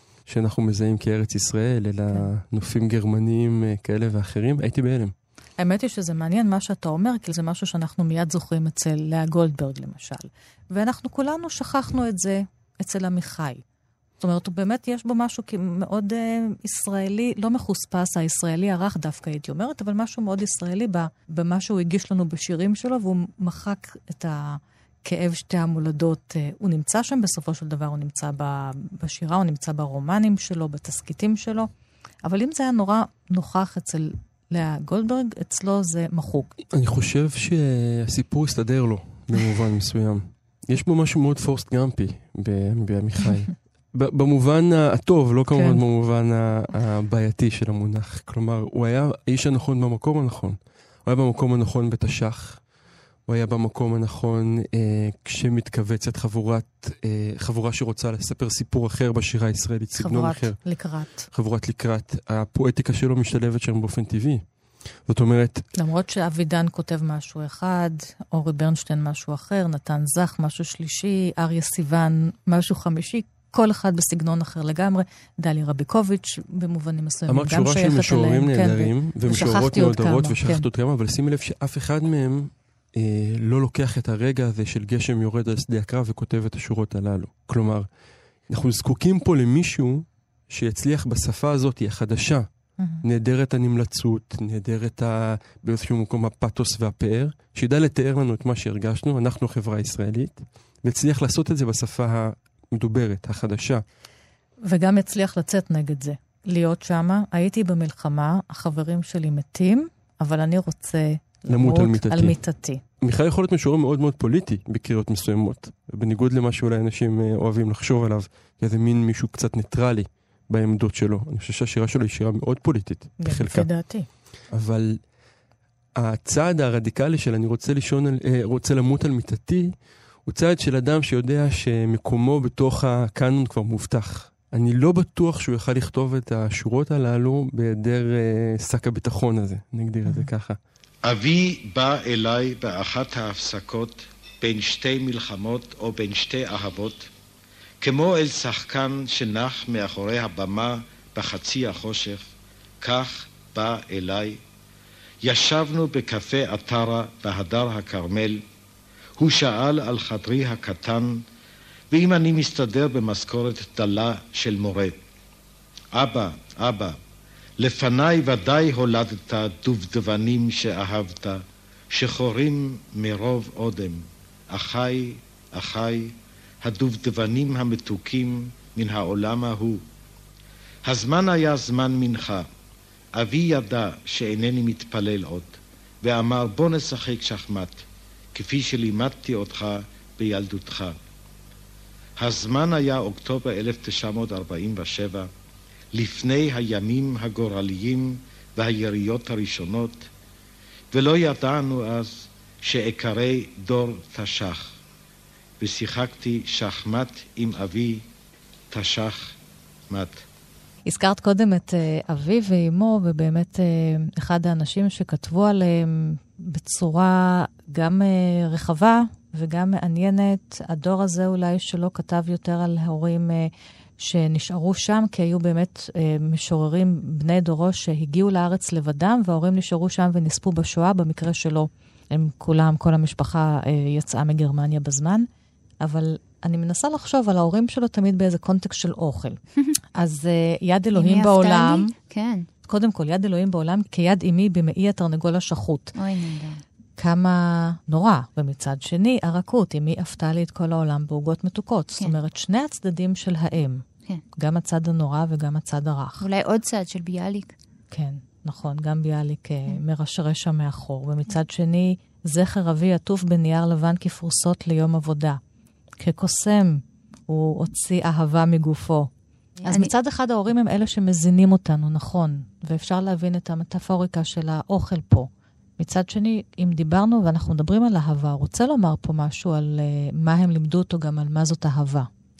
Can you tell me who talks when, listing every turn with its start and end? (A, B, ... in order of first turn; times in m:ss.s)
0:00.2-0:05.1 A
0:05.6-0:13.6 B
0:14.2-0:31.7 B
0:32.2-0:36.5 B
0:36.7-0:52.6 A
0:45.5-0:45.8 B
0:53.3-1:00.6 A
1:00.0-1:01.3 B
1:01.3-1:04.4 A
1:05.0-1:05.7 A
1:05.8-1:20.6 B
1:17.3-1:27.9 A
1:28.5-1:32.5 A
1:33.0-1:43.8 A
1:44.6-1:52.8 B
1:51.5-1:52.4 A
1:53.0-2:03.7 A
2:03.2-2:04.1 B
2:04.5-2:05.0 A
2:06.0-2:09.7 A
2:10.2-2:20.6 A
2:21.0-2:27.1 C
2:27.8-2:34.4 C
2:35.2-2:38.4 C
2:39.2-2:41.2 C
2:41.9-2:45.0 C
2:45.9-2:47.0 C
2:47.6-2:59.8 C
3:00.8-3:02.5 C
3:03.2-3:07.8 C
3:08.3-3:11.0 C
3:12.2-3:15.3 C
3:15.9-3:20.1 C
3:20.9-3:24.7 C
3:25.6-3:28.0 C
3:28.7-3:29.4 C
3:29.9-3:30.2 C
3:30.8-3:55.3 B
3:55.8-3:59.4 B
4:00.0-4:01.9 B
4:00.9-4:02.5 D
4:02.6-4:05.9 B
4:06.0-4:06.6 D
4:07.0-4:13.8 B
4:14.4-4:16.2 B
4:16.2-4:17.6 D
4:17.9-4:25.4 B
4:26.0-4:29.1 B
4:29.6-4:29.9 D
4:29.6-4:42.1 B